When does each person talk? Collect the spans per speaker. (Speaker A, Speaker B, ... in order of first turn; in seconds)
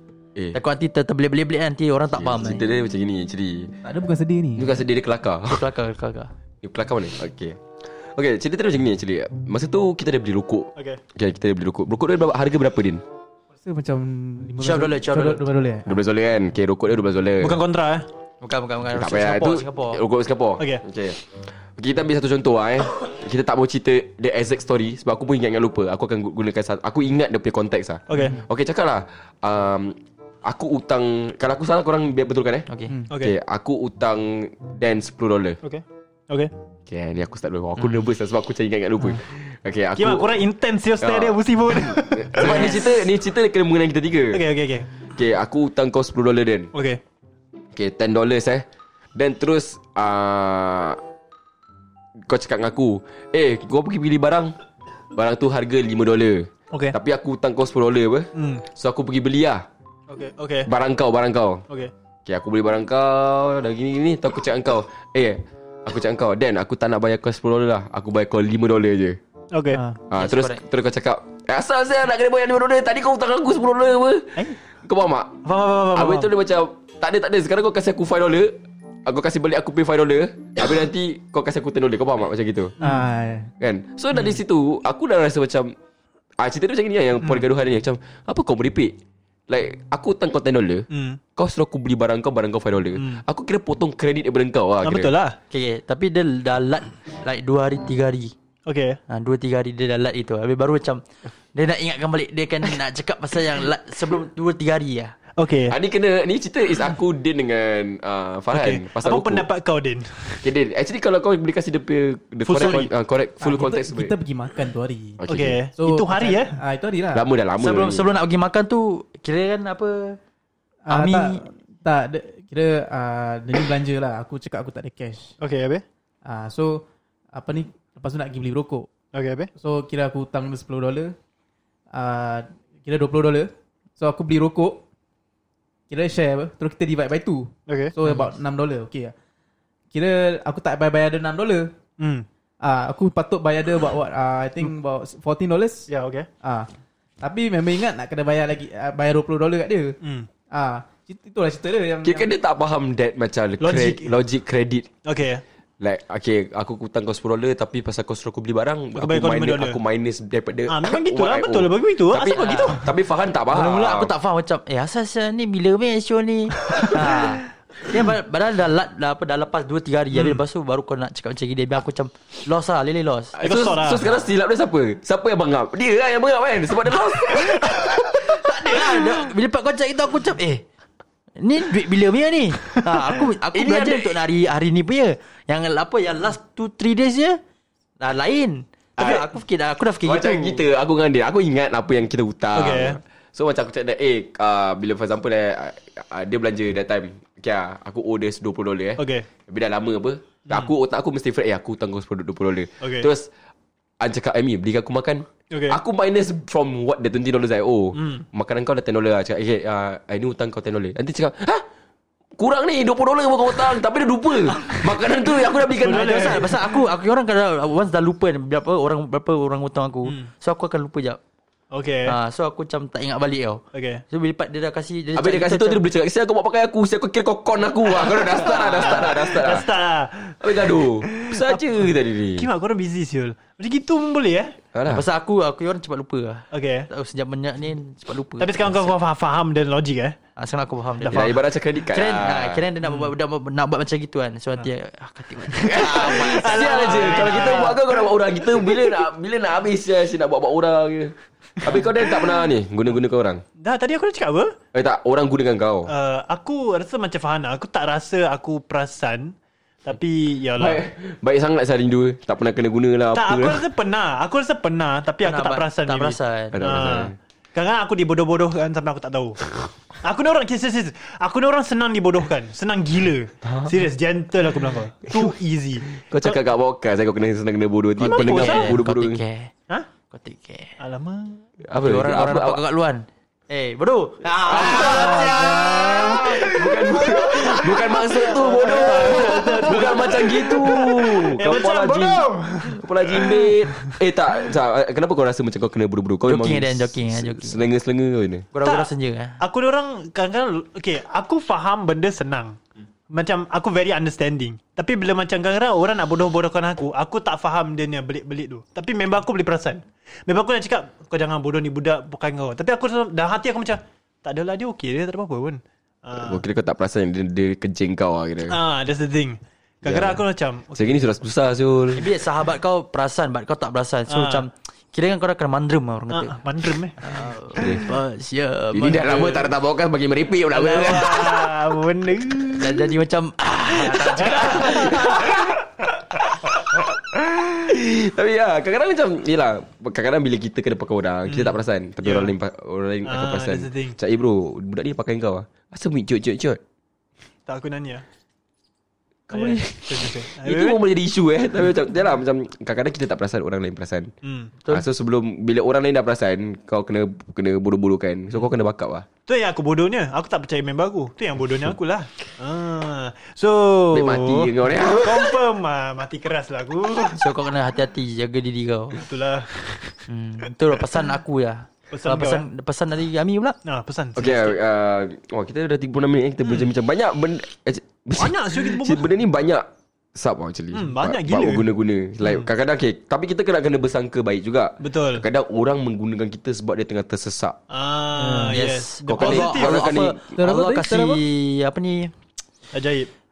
Speaker A: 0.5-2.6, 5.5-6.3, 14.6-15.4, 18.4-20.0, 37.8-38.0, 42.4-42.7, 70.1-70.6, 95.5-98.3, 99.1-101.0, 101.5-105.1, 112.5-112.8, 117.6-120.2, 120.9-121.4, 162.3-162.8, 163.5-173.4, 177.6-180.6, 181.4-187.4, 188.0-190.6, 215.7-221.2, 222.0-225.8, 228.5-229.1, 234.9-239.0, 240.4-247.8, 265.2-266.9, 278.0-279.5, 280.1-280.8, 281.7-286.6, 288.7-290.0, 296.2-297.6, 298.5-299.4, 321.9-326.4, 327.0-329.5, 332.6-335.1, 367.1-369.0, 370.1-373.6, 388.5-392.1
Speaker B: 2.1-3.7, 4.6-5.6, 6.6-7.6, 8.1-13.0, 15.8-17.6, 18.9-21.2, 21.8-35.6, 36.9-40.4, 41.0-44.4, 45.1-46.7, 47.7-51.0, 52.2-54.5, 55.1-59.6, 60.6-61.6, 62.2-69.2, 70.1-75.4, 75.9-82.7, 83.6-85.7, 86.4-88.9, 89.5-95.1, 105.7-109.5, 110.4-114.1, 115.2-115.6, 117.1-118.1, 152.0-154.9, 155.8-164.1, 173.3-178.2, 183.5-184.2, 189.0-189.2, 190.0-203.3, 204.0-211.6, 212.4-216.5, 225.1-229.7, 230.4-232.5, 234.7-235.1, 241.1-242.6, 245.6-253.4, 254.7-255.9, 260.6-263.6, 266.5-267.1, 275.9-279.2, 281.6-282.6, 284.5-298.4, 316.1-318.6, 319.8-320.2, 320.7-322.1, 327.6-327.9, 328.7-331.5, 334.1-346.6, 349.3-354.1, 354.7-359.1, 363.9-365.4, 374.1-387.6, 389.1-390.3
Speaker C: 3.8-4.8, 13.6-16.0, 69.7-70.0, 82.8-83.5, 113.4-115.2, 115.8-117.2, 120.8-125.3, 126.2-128.9, 129.6-131.1, 131.9-134.8, 135.9-139.1, 139.9-141.7, 142.6-145.9, 146.4-146.7, 147.2-149.9, 150.5-152.3, 284.9-285.9, 388.2-388.6, 390.3-391.2
Speaker D: 10.8-11.0, 17.4-18.1, 28.1-28.4, 33.1-33.3, 35.6-36.5, 40.0-42.9, 44.3-44.9, 46.7-47.0, 56.7-57.0, 58.3-58.6, 60.1-60.7, 69.5-69.8, 75.4-76.3, 90.9-91.2, 93.0-93.2, 94.8-95.4, 98.7-99.0, 105.4-105.8, 108.5-110.5, 112.5-112.9, 115.3-116.6, 125.4-125.8, 129.1-129.5, 137.7-137.9, 142.0-142.2, 145.9-146.3, 150.0-150.3, 153.6-154.1, 155.0-155.4, 158.9-159.8, 160.7-162.8, 166.7-167.2, 170.1-170.4, 173.4-174.1, 192.5-193.0, 199.0-199.2, 202.8-203.1, 205.5-205.8, 207.9-208.2, 215.8-216.8, 221.7-222.2, 223.7-224.0, 227.9-234.5, 236.5-236.9, 238.4-240.2, 241.0-241.3, 242.8-243.1, 245.6-248.0, 248.6-248.8, 251.7-252.3, 253.6-254.6, 255.9-260.8, 263.1-276.4, 278.0-278.8, 280.8-281.4, 284.4-293.9, 298.6-302.6, 303.1-316.4, 318.5-321.1, 324.1-324.5, 326.1-327.2, 330.5-332.9, 333.8-335.3, 341.3-342.3, 343.0-344.0, 347.4-348.0, 349.3-350.8, 354.2-354.5, 359.2-367.2, 368.9-369.9, 371.9-372.4, 373.6-374.6, 376.4-376.7, 378.2-379.1, 380.7-381.7, 384.8-385.2, 387.7-389.9, 392.7-393.1